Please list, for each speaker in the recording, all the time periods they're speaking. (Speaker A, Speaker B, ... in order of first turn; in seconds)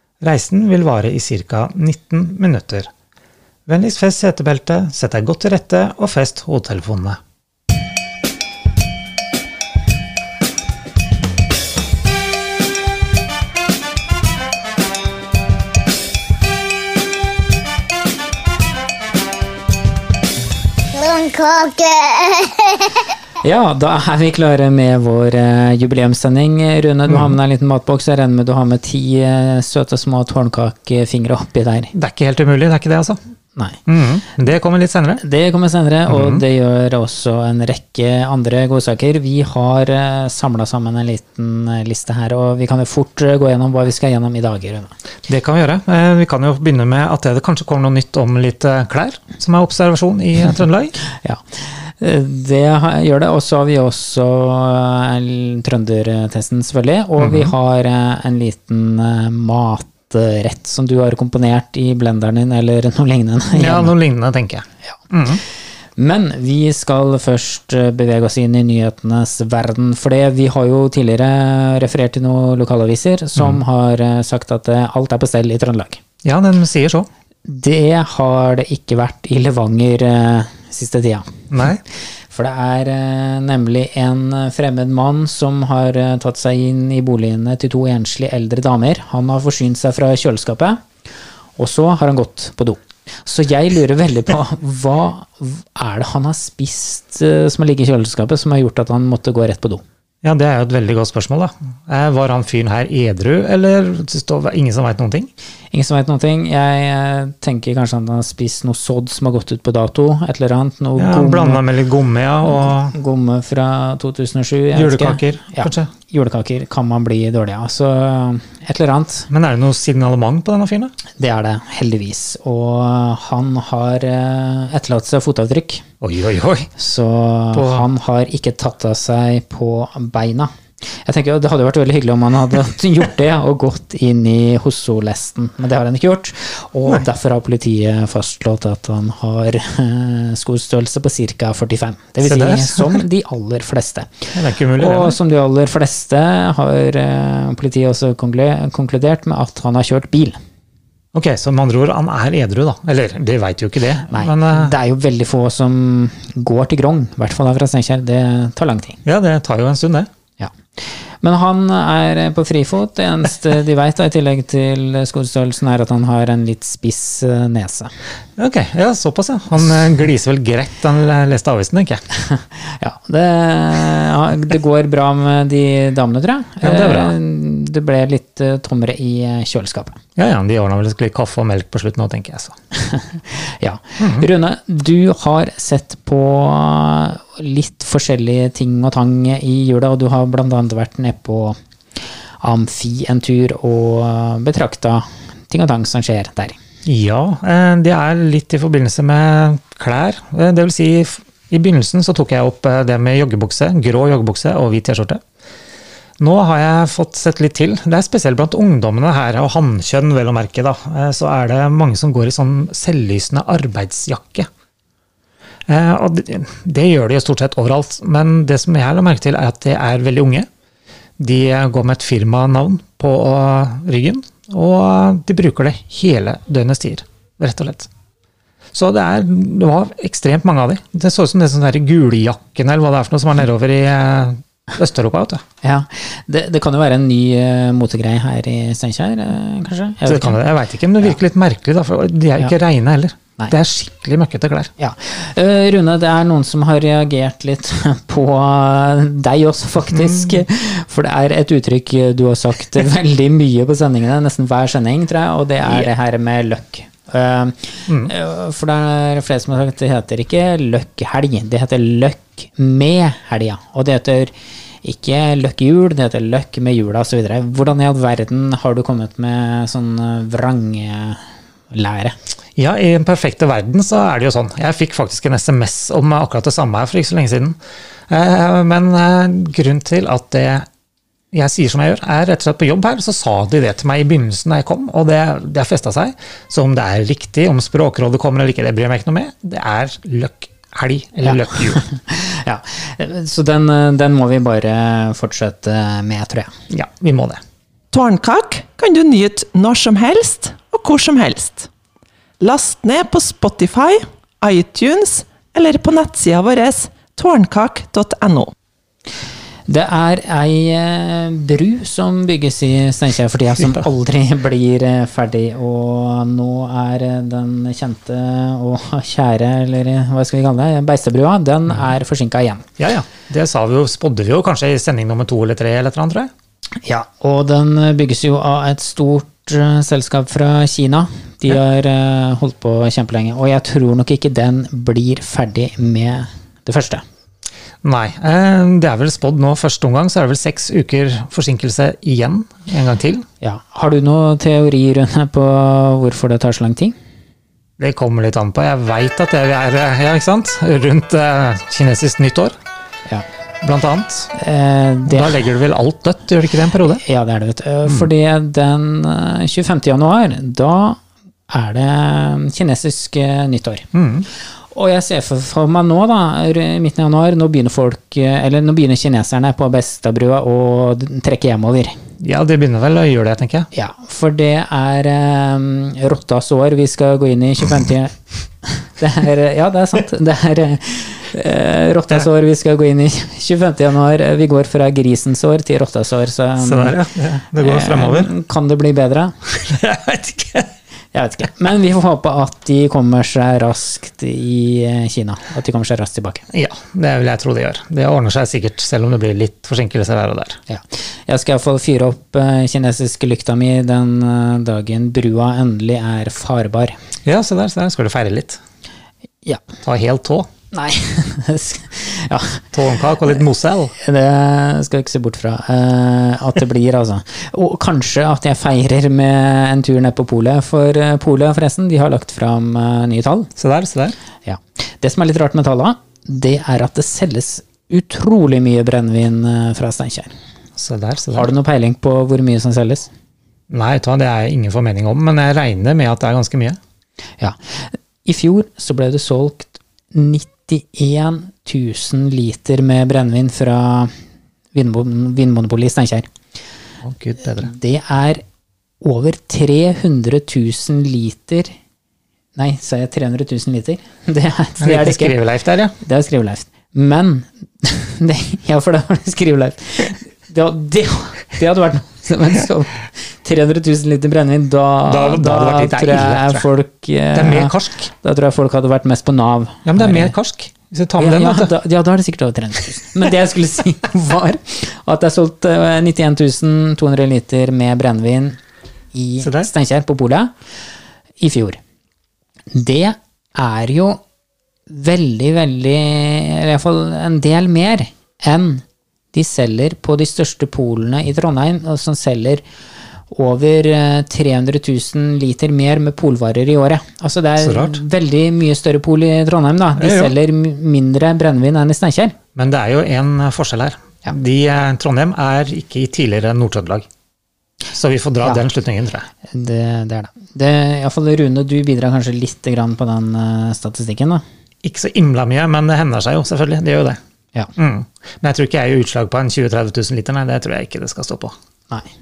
Speaker A: 0.2-2.9, 3.7-7.2, 27.1-27.4, 31.9-33.2, 33.9-35.2, 36.1-36.4, 45.3-50.9, 57.2-57.5, 63.5-65.4, 76.2-77.1, 81.5-81.8, 100.2-105.3, 111.0-112.9, 114.7-115.9, 119.3-120.9, 126.0-126.7, 127.5-127.8, 142.2-143.0, 144.3-145.2, 151.1-154.7, 159.0-160.1, 168.4-172.0, 176.6-177.1, 180.2-182.5, 184.0-184.2, 196.8-205.2, 206.2-214.5, 215.7-220.5, 221.2-227.9, 228.7-235.4, 240.0-244.7, 249.9-250.4, 257.9-258.1, 272.6-277.6, 278.1-280.7, 281.3-291.8, 296.7-297.4, 322.8-326.3, 337.8-343.2, 347.8-352.5, 353.6-354.3, 355.1-357.0, 363.9-364.3, 372.2-373.7, 386.6-388.3, 389.5-390.7, 396.5-400.6, 407.2-408.6, 409.8-410.5, 412.7-413.9, 423.6-424.1, 430.8-431.5, 433.7-436.8, 447.0-447.7, 454.8-455.9, 465.1-466.6, 467.3-468.1, 469.8-471.7, 479.4-479.7, 497.6-498.0, 500.0-500.3, 502.6-507.1, 507.9-509.3, 514.8-517.2, 517.8-521.5
Speaker B: 20.9-23.1
Speaker C: 23.4-31.9, 35.2-44.9, 51.1-63.9, 66.0-76.0, 77.5-81.3, 82.3-90.8, 91.6-99.8, 105.7-111.6, 112.4-119.3, 121.1-125.8, 126.8-150.4, 154.1-159.0, 160.4-167.9, 172.3-180.0, 182.7-191.6, 192.4-196.6, 235.6-240.4, 244.8-272.1, 291.2-296.5, 309.7-322.6, 326.8-337.0, 343.4-346.9, 354.3-355.4, 357.0-363.9, 364.7-371.9, 373.7-387.0, 387.6-389.3, 391.1-396.4, 400.7-407.0, 410.7-412.7, 414.0-423.5, 424.4-430.3, 431.3-433.1, 437.4-444.1, 444.7-446.3, 447.6-448.4, 449.0-451.7, 452.6-455.4, 456.0-470.3, 471.2-478.6, 479.1-480.5, 481.4-481.8, 482.7-484.2, 484.9-492.6, 493.3-502.3, 509.5-514.4
Speaker D: 297.9-301.7, 302.4-308.5